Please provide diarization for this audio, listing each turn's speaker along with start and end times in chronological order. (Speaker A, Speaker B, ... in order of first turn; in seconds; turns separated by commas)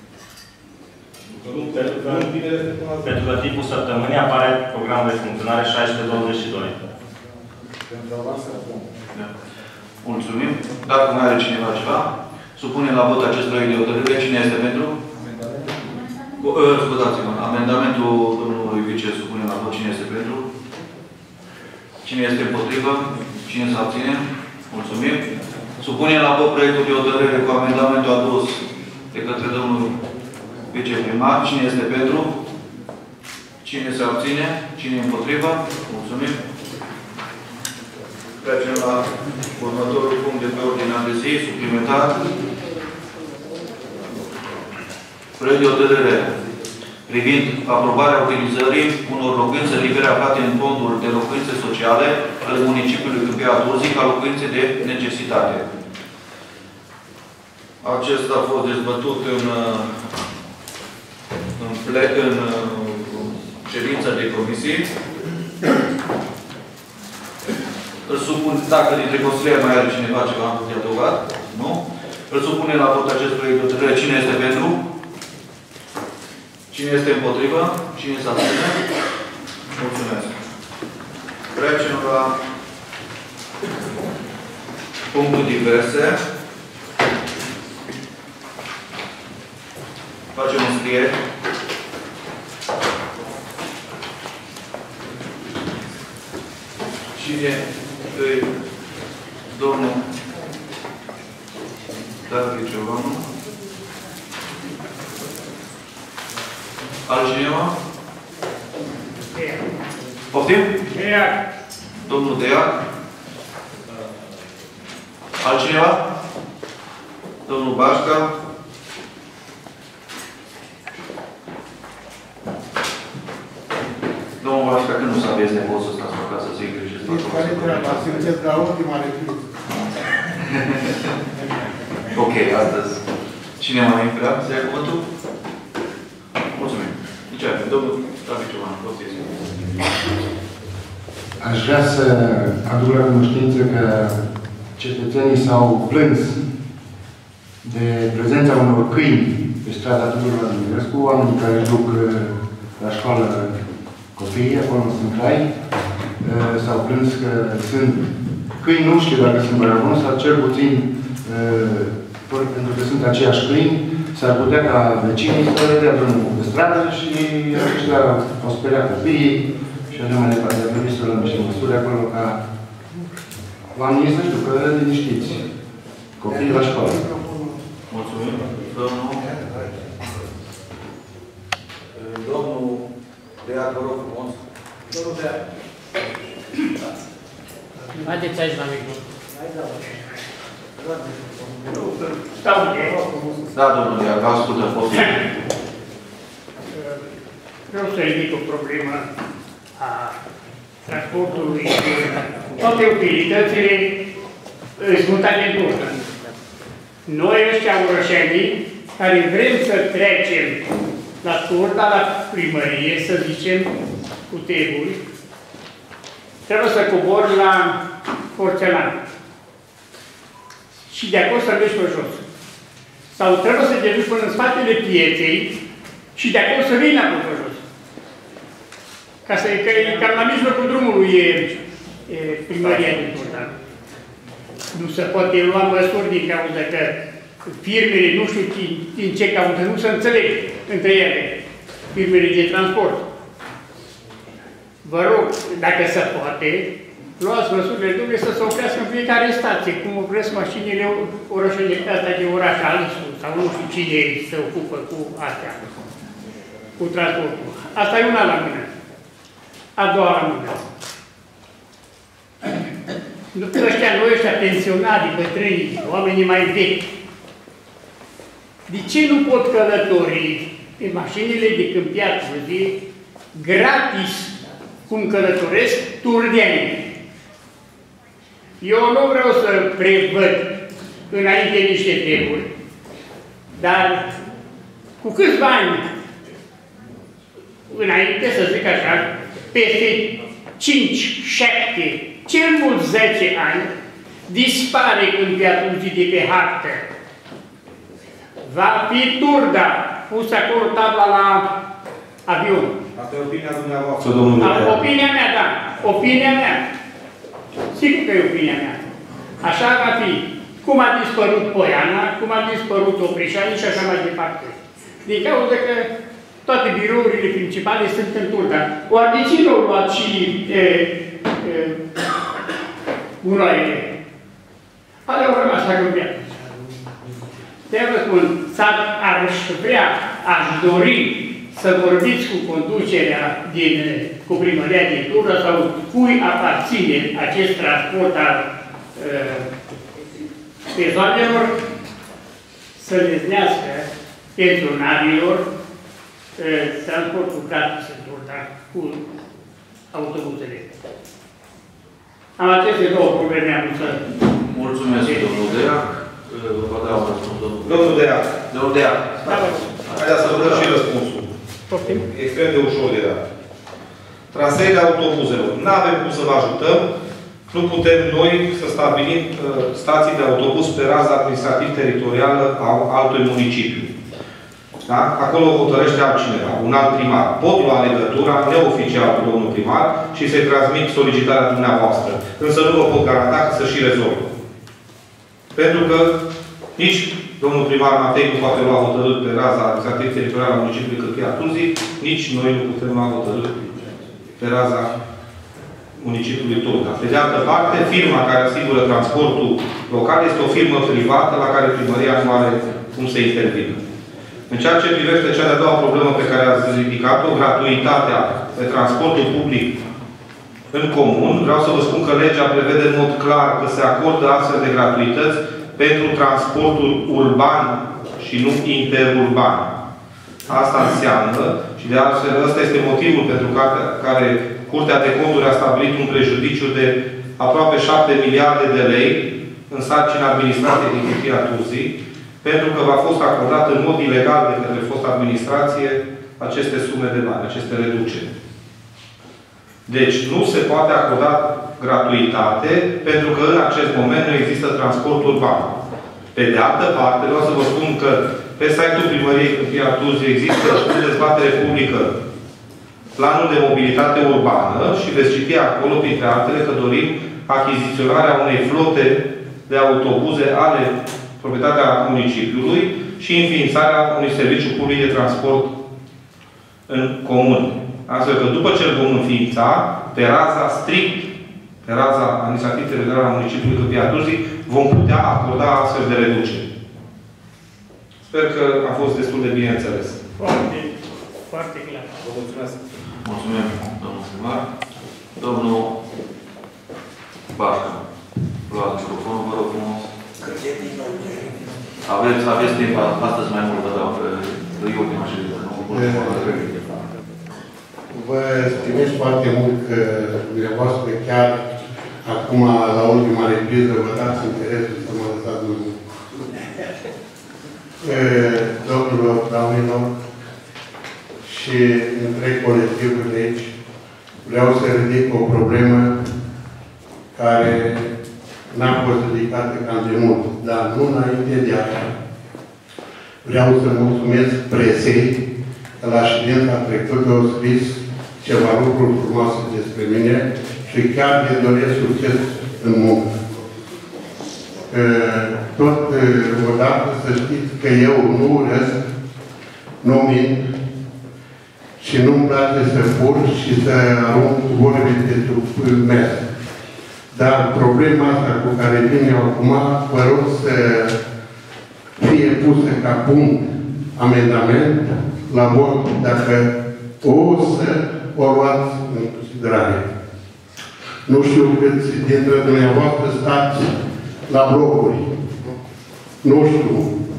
Speaker A: 1.4-3.2, Speaker B: 1.5-2.3, Speaker B: 3.0-6.8, Speaker C: 10.0-15.0, Speaker C: 16.4-20.5, Speaker C: 22.0-30.0, Speaker C: 30.7-32.3, Speaker C: 33.6-36.4, Speaker C: 38.4-42.2, Speaker C: 45.4-46.4, Speaker C: 47.1-55.7, Speaker C: 57.8-60.0, Speaker C: 61.6-64.9, Speaker C: 68.1-74.8, Speaker C: 76.7-78.8, Speaker C: 79.7-80.3, Speaker C: 81.5-82.4, Speaker C: 85.1-86.2, Speaker C: 90.3-91.2, Speaker C: 97.2-98.5, Speaker C: 99.5-100.0, Speaker C: 102.2-103.3, Speaker C: 107.1-107.8, Speaker D: 109.3-109.7, Speaker C: 110.3-110.8, Speaker D: 110.9-111.4, Speaker C: 112.0-112.8, Speaker C: 115.4-116.0, Speaker C: 117.5-118.3, Speaker C: 124.4-128.3, Speaker E: 127.0-129.6, Speaker C: 130.4-131.1, Speaker C: 132.1-133.0, Speaker C: 133.6-135.1, Speaker C: 136.5-139.6, Speaker F: 141.4-144.2, Speaker F: 144.8-146.4, Speaker F: 147.6-155.5, Speaker F: 156.2-172.4, Speaker F: 173.7-175.5, Speaker F: 176.2-177.1, Speaker C: 177.9-179.3, Speaker C: 182.0-182.8, Speaker C: 183.4-184.3, Speaker D: 187.9-189.0, Speaker D: 189.6-190.2, Speaker D: 191.7-193.1, Speaker C: 193.5-195.3, Speaker D: 196.7-197.1, Speaker D: 197.7-199.1, Speaker D: 199.8-200.2, Speaker D: 200.9-204.0, Speaker D: 204.8-206.0, Speaker D: 207.1-210.6, Speaker D: 211.2-213.7, Speaker D: 214.3-215.0, Speaker D: 216.5-217.8, Speaker D: 218.3-219.0, Speaker D: 220.9-222.2, Speaker D: 223.1-225.6, Speaker D: 226.2-227.6, Speaker D: 229.3-233.5, Speaker D: 234.7-241.4, Speaker D: 241.9-243.1, Speaker D: 244.8-255.6, Speaker D: 256.8-258.7, Speaker D: 259.8-260.7, Speaker D: 263.3-266.9, Speaker D: 268.7-272.8, Speaker D: 273.3-276.9, Speaker D: 278.6-280.6, Speaker D: 281.1-282.5, Speaker D: 283.6-284.1, Speaker D: 285.0-285.9, Speaker D: 287.7-293.7, Speaker D: 294.3-296.9, Speaker D: 298.4-301.6, Speaker D: 302.3-302.7, Speaker A: 303.0-304.8, Speaker D: 304.4-306.6, Speaker D: 307.7-308.9, Speaker D: 309.4-315.9, Speaker D: 316.5-321.8, Speaker D: 323.2-323.9, Speaker D: 325.1-326.7, Speaker D: 327.7-339.5, Speaker D: 340.7-341.6, Speaker D: 342.8-345.5, Speaker D: 346.4-349.0, Speaker D: 349.9-350.7, Speaker D: 352.4-354.0, Speaker C: 354.3-360.8, Speaker A: 357.7-358.3, Speaker D: 359.3-359.7, Speaker A: 359.9-361.3, Speaker D: 361.7-362.1, Speaker A: 362.1-363.2, Speaker A: 364.3-366.9, Speaker A: 367.5-373.9, Speaker A: 374.8-384.3, Speaker A: 385.6-386.2, Speaker A: 386.8-393.8, Speaker A: 394.4-394.9, Speaker A: 396.0-403.8, Speaker A: 404.5-409.8, Speaker A: 410.7-419.7, Speaker A: 420.5-438.3, Speaker A: 439.9-445.8, Speaker A: 446.3-452.1, Speaker A: 453.2-465.8, Speaker A: 466.9-471.3, Speaker A: 471.8-476.7, Speaker A: 478.2-480.2, Speaker D: 480.4-482.2, Speaker A: 482.2-482.8, Speaker C: 483.2-484.6, Speaker C: 485.4-485.9, Speaker C: 487.5-488.0, Speaker C: 488.7-490.1, Speaker C: 492.0-497.0, Speaker E: 495.9-496.5, Speaker E: 498.1-501.6, Speaker E: 502.2-506.0, Speaker E: 508.0-510.1, Speaker E: 511.4-513.7, Speaker E: 514.4-516.2, Speaker E: 517.4-518.1, Speaker E: 518.7-522.1, Speaker E: 523.4-525.4, Speaker E: 526.0-533.4, Speaker E: 534.9-539.0, Speaker E: 540.0-540.7, Speaker E: 542.0-546.4, Speaker E: 547.3-551.2, Speaker E: 552.2-560.0, Speaker E: 561.3-564.0, Speaker E: 564.5-565.3, Speaker E: 566.4-567.1